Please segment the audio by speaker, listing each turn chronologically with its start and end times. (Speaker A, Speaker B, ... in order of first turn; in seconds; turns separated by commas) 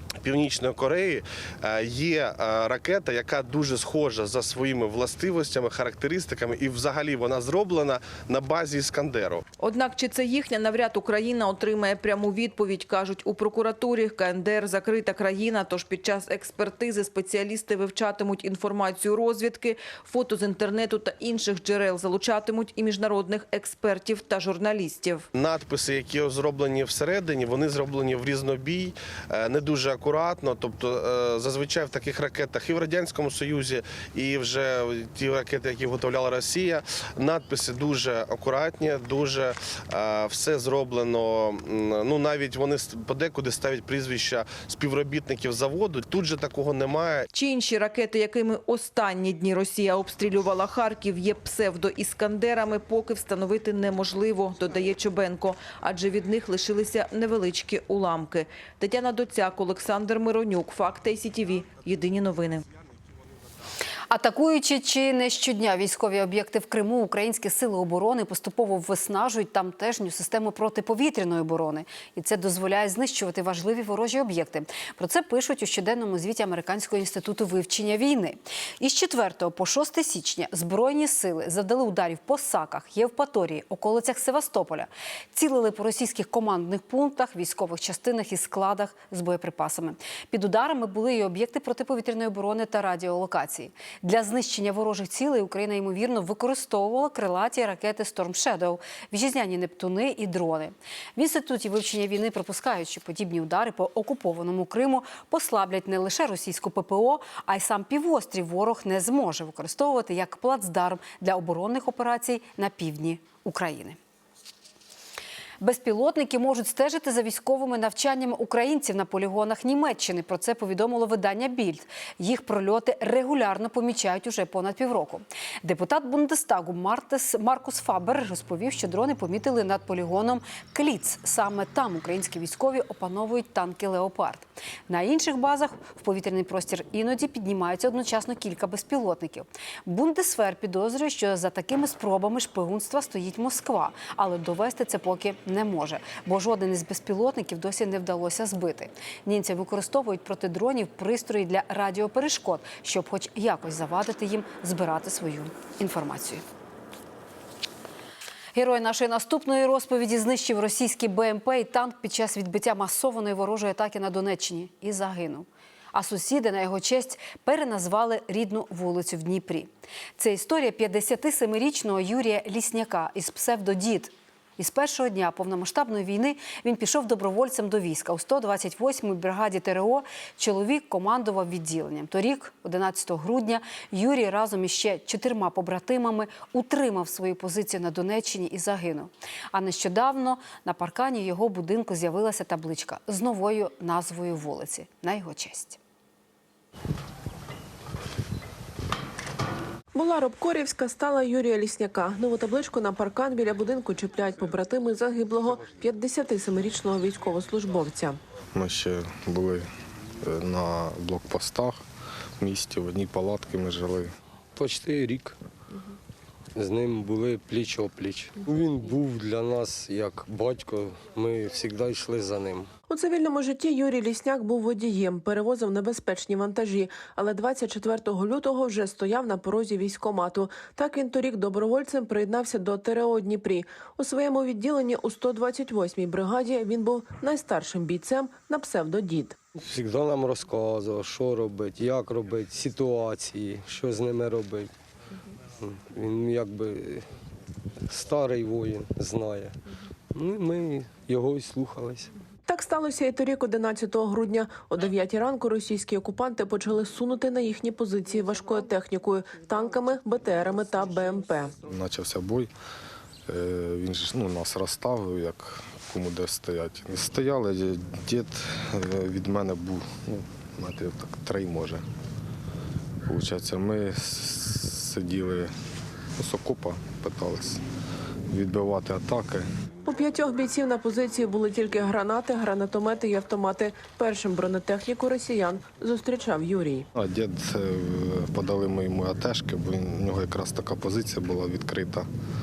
Speaker A: 0.2-9.4, Speaker B: 9.6-25.3, Speaker A: 25.3-47.3, Speaker B: 47.3-62.6, Speaker C: 64.1-114.0, Speaker C: 115.6-156.4, Speaker C: 158.5-195.8, Speaker D: 199.9-208.2, Speaker E: 208.5-209.7, Speaker E: 210.2-211.8, Speaker E: 212.4-214.1, Speaker F: 214.6-215.4, Speaker F: 216.6-222.7, Speaker D: 222.9-239.3, Speaker F: 239.6-244.7, Speaker F: 245.6-247.1, Speaker F: 247.8-249.6, Speaker F: 250.1-252.1, Speaker D: 252.5-261.5, Speaker E: 261.6-262.5, Speaker E: 263.3-271.8, Speaker E: 273.1-275.5, Speaker E: 276.2-277.6, Speaker E: 278.3-279.4, Speaker D: 279.9-286.9, Speaker E: 286.9-292.1